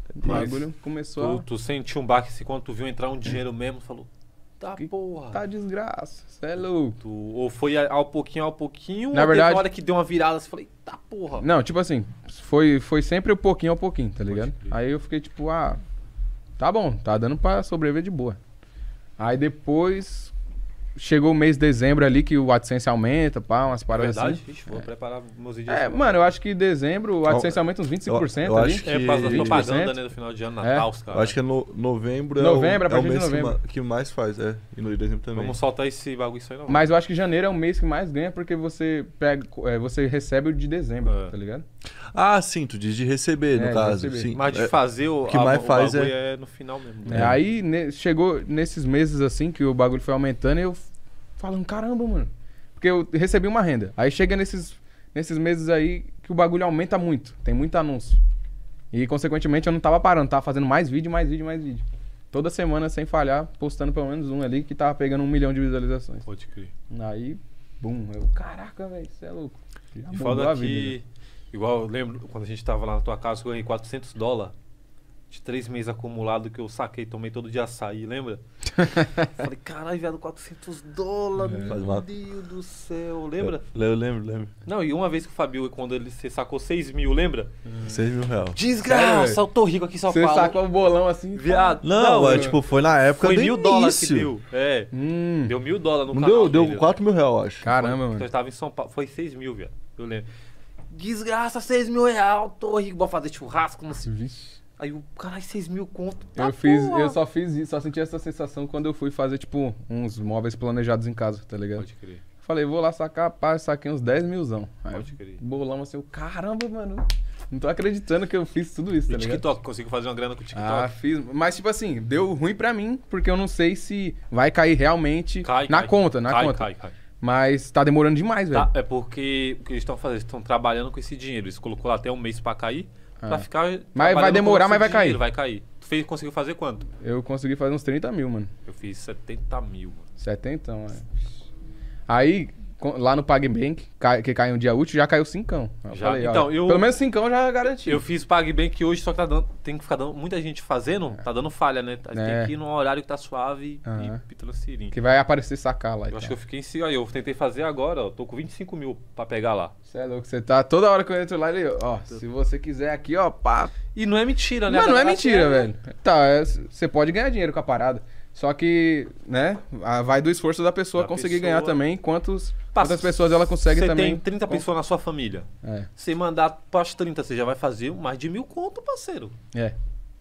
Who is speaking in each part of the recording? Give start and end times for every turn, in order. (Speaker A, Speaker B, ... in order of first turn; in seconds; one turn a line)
Speaker A: 0.2-1.5
Speaker B: 0.2-4.1
Speaker B: 4.6-5.4
Speaker A: 4.8-7.0
Speaker B: 7.0-11.4
Speaker A: 9.1-9.7
Speaker A: 11.4-15.8
Speaker B: 14.3-14.8
Speaker A: 16.6-18.4
Speaker A: 19.2-20.3
Speaker A: 21.0-24.9
Speaker B: 23.9-26.3
Speaker A: 25.7-30.0
Speaker C: 27.3-29.7
Speaker B: 28.8-31.4
Speaker A: 30.6-30.9
Speaker C: 31.1-35.6
Speaker A: 32.4-33.6
Speaker B: 35.3-36.9
Speaker A: 36.7-41.6
Speaker B: 41.0-41.3
Speaker C: 42.1-46.1
Speaker A: 43.5-44.3
Speaker B: 44.3-47.3
Speaker A: 47.1-58.2
Speaker C: 47.1-47.4
Speaker A: 58.9-66.3
Speaker B: 66.3-66.7
Speaker A: 66.9-71.0
Speaker B: 70.1-74.5
Speaker B: 75.3-83.7
Speaker C: 81.7-82.1
Speaker C: 83.4-84.5
Speaker B: 84.7-88.0
Speaker C: 87.8-88.6
Speaker B: 88.5-90.6
Speaker A: 88.8-89.4
Speaker A: 90.1-92.6
Speaker B: 91.3-92.6
Speaker C: 91.8-94.3
Speaker B: 93.2-96.9
Speaker A: 94.9-95.5
Speaker C: 96.1-97.6
Speaker A: 97.6-98.3
Speaker B: 97.6-100.3
Speaker B: 100.9-104.1
Speaker A: 104.0-104.6
Speaker B: 104.8-107.2
Speaker A: 106.4-111.9
Speaker B: 111.8-112.2
Speaker A: 112.4-119.4
Speaker B: 114.9-115.4
Speaker B: 119.1-120.9
Speaker A: 120.5-126.7
Speaker B: 125.4-126.9
Speaker A: 127.2-128.7
Speaker B: 128.5-136.9
Speaker A: 133.2-135.2
Speaker A: 137.0-138.5
Speaker B: 138.7-140.1
Speaker A: 140.2-141.1
Speaker A: 142.1-148.0
Speaker B: 145.9-146.9
Speaker B: 147.8-154.9
Speaker A: 152.1-152.5
Speaker A: 153.8-154.2
Speaker A: 154.9-156.3
Speaker B: 156.1-159.7
Speaker A: 159.9-163.8
Speaker B: 163.9-165.7
Speaker A: 164.7-174.7
Speaker B: 170.9-171.8
Speaker B: 172.7-179.3
Speaker A: 175.6-175.9